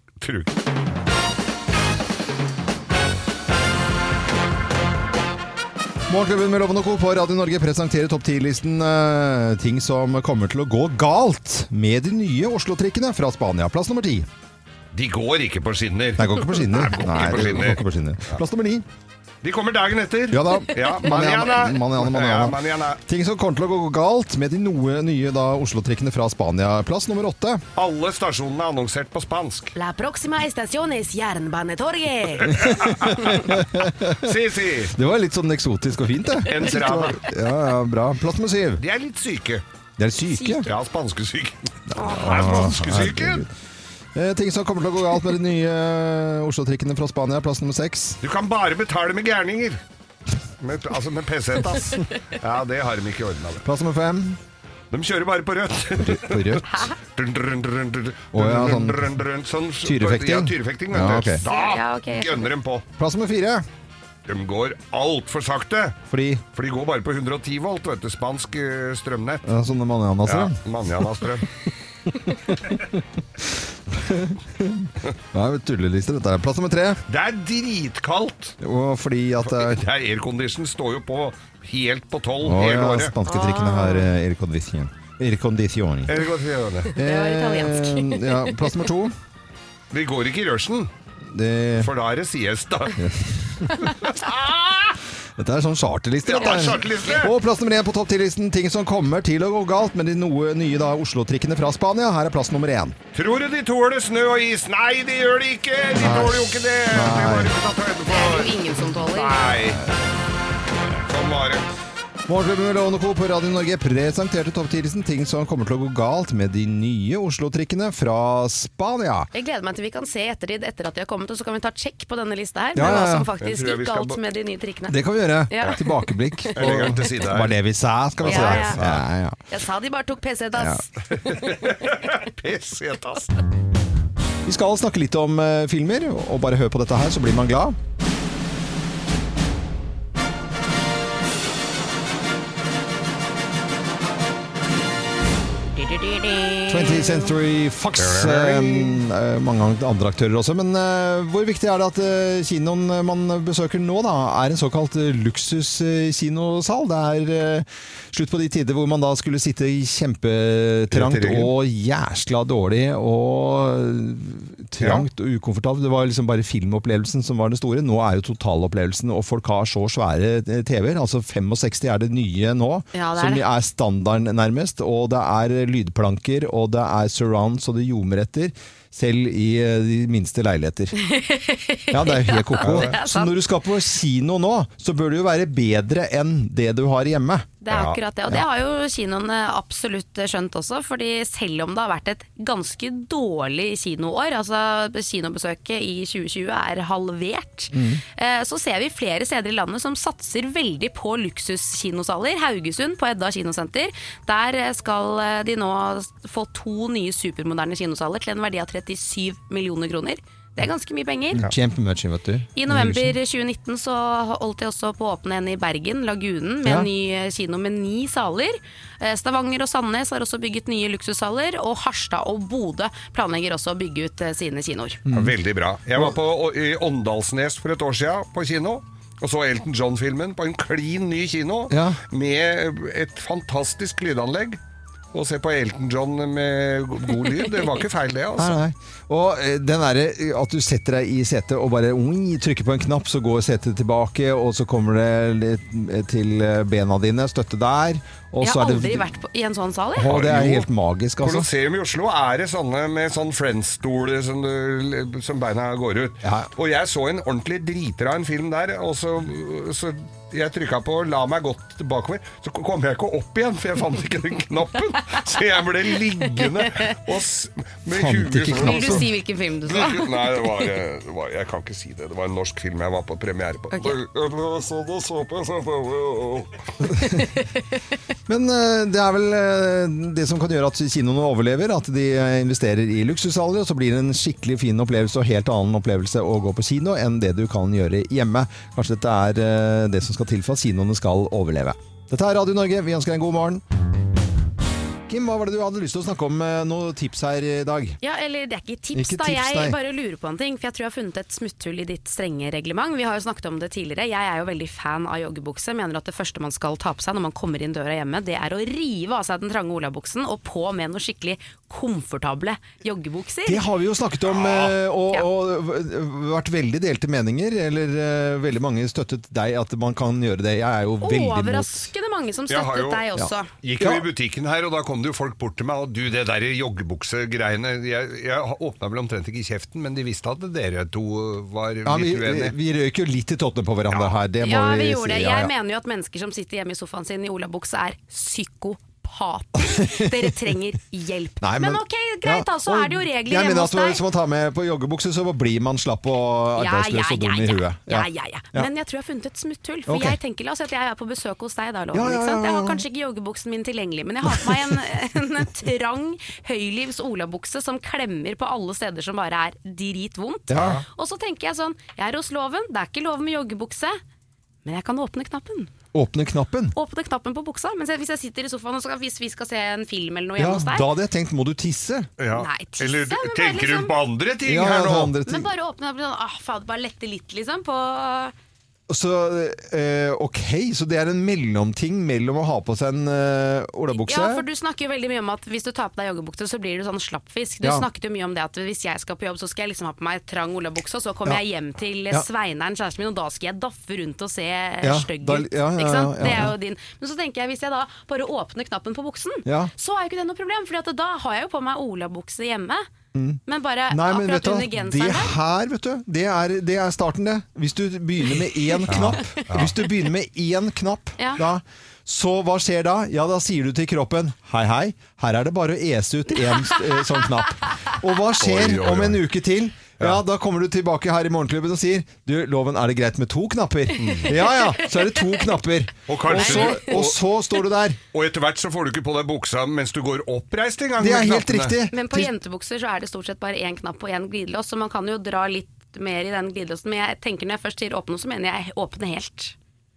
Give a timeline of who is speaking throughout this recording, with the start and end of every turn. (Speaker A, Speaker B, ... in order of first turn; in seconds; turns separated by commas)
Speaker A: 0.2-0.6, Speaker B: 6.1-14.3, Speaker A: 14.9-18.4, Speaker B: 16.2-18.9, Speaker A: 19.4-23.0, Speaker B: 20.3-27.6, Speaker A: 27.8-29.7, Speaker C: 29.8-32.9, Speaker A: 32.4-34.9, Speaker B: 32.5-34.4, Speaker B: 34.9-38.8, Speaker A: 36.5-37.2, Speaker A: 38.8-39.6, Speaker B: 40.0-40.7, Speaker C: 40.3-40.6, Speaker A: 40.6-43.5, Speaker B: 41.9-43.5, Speaker C: 42.0-42.3, Speaker B: 44.1-48.2, Speaker A: 48.2-49.8, Speaker A: 50.6-53.6, Speaker B: 53.6-54.4, Speaker A: 54.9-62.9, Speaker B: 56.0-56.7, Speaker C: 56.7-57.0, Speaker B: 58.3-59.1, Speaker B: 59.8-61.4, Speaker C: 61.4-62.5, Speaker B: 63.0-63.6, Speaker A: 64.3-66.0, Speaker B: 66.1-66.4, Speaker A: 66.5-69.4, Speaker B: 69.5-71.1, Speaker A: 70.2-71.5, Speaker B: 72.1-77.0, Speaker A: 77.1-78.6, Speaker B: 78.6-79.8, Speaker A: 79.5-83.1, Speaker B: 82.4-86.2, Speaker C: 83.3-84.1, Speaker A: 86.1-86.9, Speaker B: 87.0-89.2, Speaker C: 87.0-88.7, Speaker A: 89.9-90.9, Speaker B: 91.3-91.9, Speaker A: 91.8-93.0, Speaker B: 93.0-93.9, Speaker A: 93.8-95.0, Speaker B: 95.4-103.0, Speaker A: 96.2-97.4, Speaker A: 103.1-109.8, Speaker B: 105.9-107.5, Speaker C: 108.1-109.5, Speaker A: 110.9-111.7, Speaker B: 112.3-119.3, Speaker C: 119.3-125.8, Speaker B: 122.8-123.3, Speaker A: 123.4-124.2, Speaker B: 124.9-129.4, Speaker C: 126.4-126.9, Speaker A: 126.6-127.6, Speaker A: 128.2-129.0, Speaker C: 128.2-128.8, Speaker C: 129.5-131.7, Speaker B: 130.6-130.8, Speaker A: 131.2-133.3, Speaker B: 134.4-137.8, Speaker C: 145.8-147.3, Speaker B: 146.7-180.9, Speaker A: 148.0-149.0, Speaker A: 160.9-161.5, Speaker A: 164.8-165.1, Speaker C: 172.9-173.4, Speaker C: 181.0-183.4, Speaker B: 181.9-187.5, Speaker A: 182.6-182.9, Speaker C: 187.6-211.5, Speaker A: 187.7-188.0, Speaker B: 197.7-198.0, Speaker B: 211.3-213.2, Speaker C: 212.6-225.0, Speaker B: 216.6-216.9, Speaker B: 225.1-225.4, Speaker A: 225.1-234.6, Speaker B: 231.7-232.0, Speaker A: 235.1-238.6, Speaker B: 238.4-249.1, Speaker C: 248.4-250.1, Speaker B: 249.9-251.5, Speaker A: 250.0-250.7, Speaker A: 251.2-269.1, Speaker B: 256.2-256.5, Speaker C: 266.4-267.0, Speaker B: 267.9-269.1, Speaker C: 268.6-270.6, Speaker A: 269.7-276.6, Speaker B: 276.8-277.3, Speaker C: 277.1-277.8, Speaker B: 278.3-293.6, Speaker B: 295.1-298.0, Speaker C: 298.0-313.7, Speaker B: 298.9-299.8, Speaker B: 313.5-321.9, Speaker A: 314.3-314.8, Speaker C: 321.0-323.5, Speaker A: 322.5-323.1, Speaker B: 323.2-324.1, Speaker A: 323.6-332.6, Speaker B: 331.8-335.5, Speaker A: 333.9-334.2, Speaker C: 334.4-344.0, Speaker B: 339.6-340.5, Speaker B: 341.4-348.7, Speaker C: 346.6-364.0, Speaker B: 349.9-350.2, Speaker B: 351.9-352.8, Speaker B: 354.3-354.8, Speaker B: 360.5-360.8, Speaker A: 360.5-360.8, Speaker C: 364.6-365.7, Speaker B: 365.9-366.8, Speaker C: 366.8-370.9, Speaker B: 370.4-372.1, Speaker A: 372.2-375.1, Speaker C: 372.3-373.9, Speaker B: 374.4-375.5, Speaker C: 375.3-378.3, Speaker B: 378.9-384.4, Speaker C: 383.9-402.9, Speaker B: 394.8-396.5, Speaker B: 399.5-399.7, Speaker B: 403.1-428.0, Speaker C: 403.5-405.4, Speaker C: 408.7-409.4, Speaker A: 408.9-409.7, Speaker C: 411.2-411.4, Speaker A: 418.4-419.2, Speaker A: 424.0-424.4, Speaker C: 424.4-425.4, Speaker A: 426.1-427.2, Speaker C: 426.3-427.0, Speaker A: 428.1-431.8, Speaker B: 431.0-432.3, Speaker C: 431.9-439.6